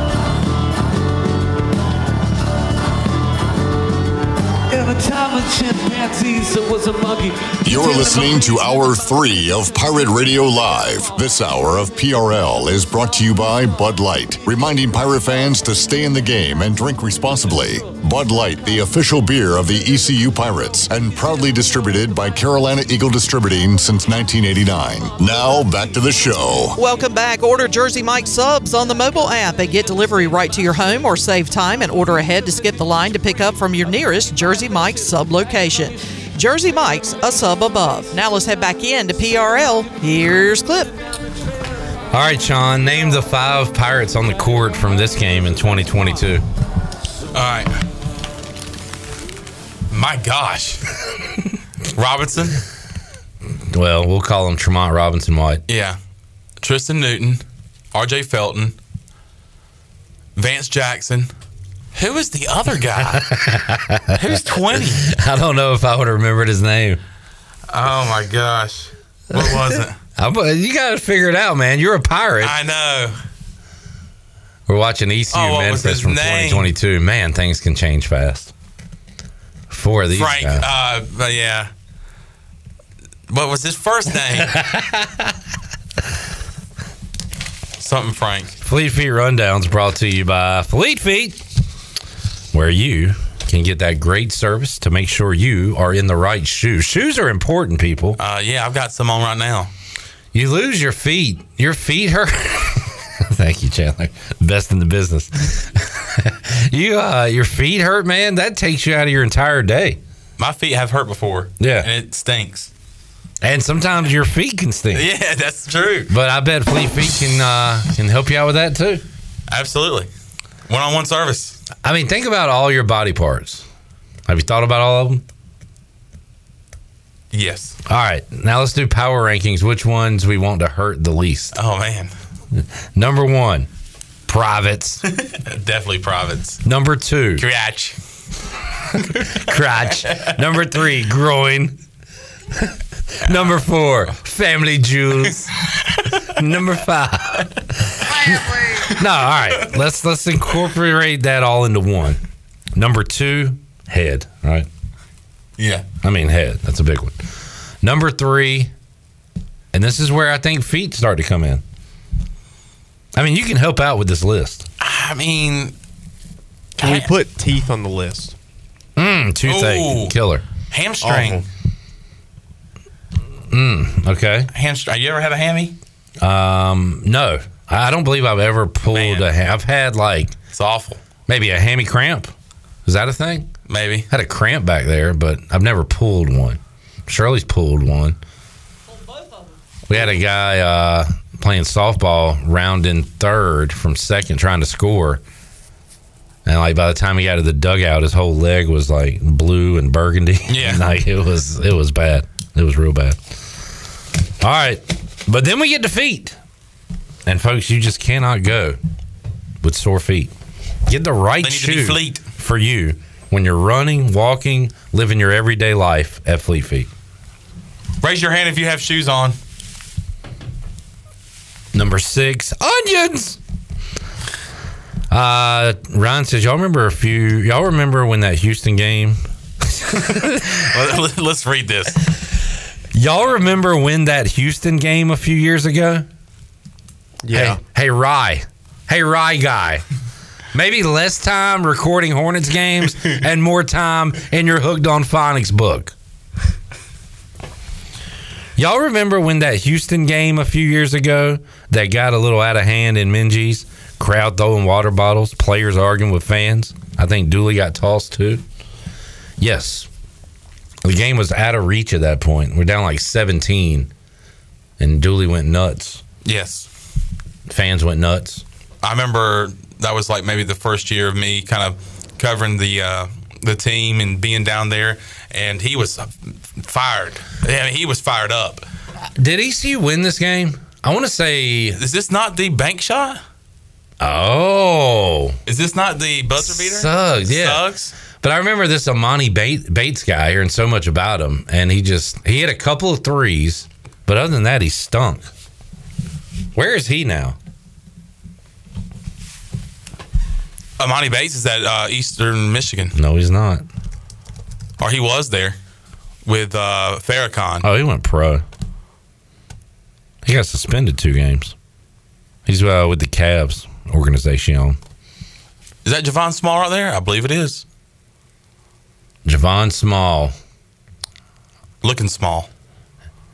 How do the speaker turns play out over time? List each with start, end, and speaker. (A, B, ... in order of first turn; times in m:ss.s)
0:04.7-0:08.4 A
0:07.6-0:26.8 B
0:26.8-0:40.9 C
0:42.1-0:46.4 D
0:47.3-0:47.7 E
0:49.9-0:50.8 E
0:51.9-0:52.6 E
0:53.7-0:55.6 D
0:55.7-0:56.0 E
0:56.6-0:57.4 E
0:57.9-0:58.7 E
1:00.4-1:01.3 E
1:01.9-1:03.3 E
1:03.1-1:07.0 D
1:04.1-1:05.0 E
1:07.7-1:10.0 E
1:10.2-1:12.5 D
1:12.4-1:13.1 E
1:14.7-1:18.5 D
1:15.3-1:16.7 E
1:19.7-1:20.6 D
1:20.1-1:21.7 E
1:23.3-1:24.6 E
1:24.4-1:25.3 D
1:27.8-1:28.5 E
1:28.6-1:31.4 D
1:32.5-1:38.2 D
1:38.2-1:39.7 E
1:40.3-1:50.0 D
1:50.4-1:52.7 E
1:51.6-1:51.9 D
1:53.4-1:55.1 D
1:54.9-1:56.1 E
1:56.1-1:59.0 D
1:59.5-2:00.1 E
2:00.7-2:01.6 E
2:01.8-2:03.6 D
2:04.3-2:05.2 D
2:07.3-2:07.8 E
2:07.9-2:11.5 D
2:11.5-2:12.1 E
2:12.6-2:13.7 D
2:14.3-2:15.0 D
2:15.2-2:16.6 E
2:16.6-2:17.4 D
2:17.4-2:18.0 E
2:19.1-2:19.4 E
2:19.3-2:21.8 D
2:22.5-2:25.5 D
2:23.2-2:23.5 E
2:26.3-2:32.2 D
2:32.7-2:34.7 D
2:35.6-2:35.8 E
2:36.0-2:37.2 D
2:37.8-2:38.7 D
2:39.7-2:41.6 D
2:43.2-2:44.6 D
2:44.8-2:45.7 E
2:46.8-2:47.1 E
2:46.8-2:48.3 F
2:49.0-2:50.4 D
2:49.4-2:50.1 E
2:50.7-2:51.4 E
2:51.0-2:51.4 F
2:53.5-2:54.5 D
2:54.5-2:55.8 E
2:56.2-3:00.3 D
2:58.9-2:59.2 E
3:00.5-3:01.0 E
3:01.3-3:02.3 D
3:02.8-3:03.5 D
3:03.7-3:04.1 E
3:04.1-3:08.2 D
3:09.9-3:15.2 D
3:16.4-3:23.2 D
3:20.5-3:20.8 E
3:24.4-3:26.4 D
3:27.2-3:28.8 D
3:29.6-3:30.3 D
3:30.9-3:36.9 D
3:31.4-3:32.2 E
3:38.0-3:39.4 E
3:41.7-3:43.4 D
3:45.1-3:50.6 D
3:50.5-3:52.0 E
3:52.9-3:56.1 D
3:57.2-3:57.6 F
3:57.3-3:59.8 D
4:00.5-4:05.9 D
4:08.6-4:18.4 D
4:19.4-4:19.9 D
4:20.8-4:23.9 D
4:24.8-4:26.0 D
4:26.2-4:26.7 E
4:27.5-4:28.4 D
4:28.8-4:38.6 E
4:39.2-4:41.8 D
4:41.8-4:43.2 E
4:44.0-4:45.4 D
4:45.5-4:47.9 E
4:46.4-4:47.6 D
4:48.2-4:55.3 D
4:56.5-4:57.4 D
5:00.8-5:02.9 E
5:02.9-5:03.6 D
5:04.8-5:05.6 E
5:06.2-5:07.6 E
5:07.6-5:08.4 D
5:10.2-5:11.5 D
5:12.4-5:14.8 D
5:15.8-5:17.6 E
5:19.2-5:20.3 D
5:21.8-5:22.5 E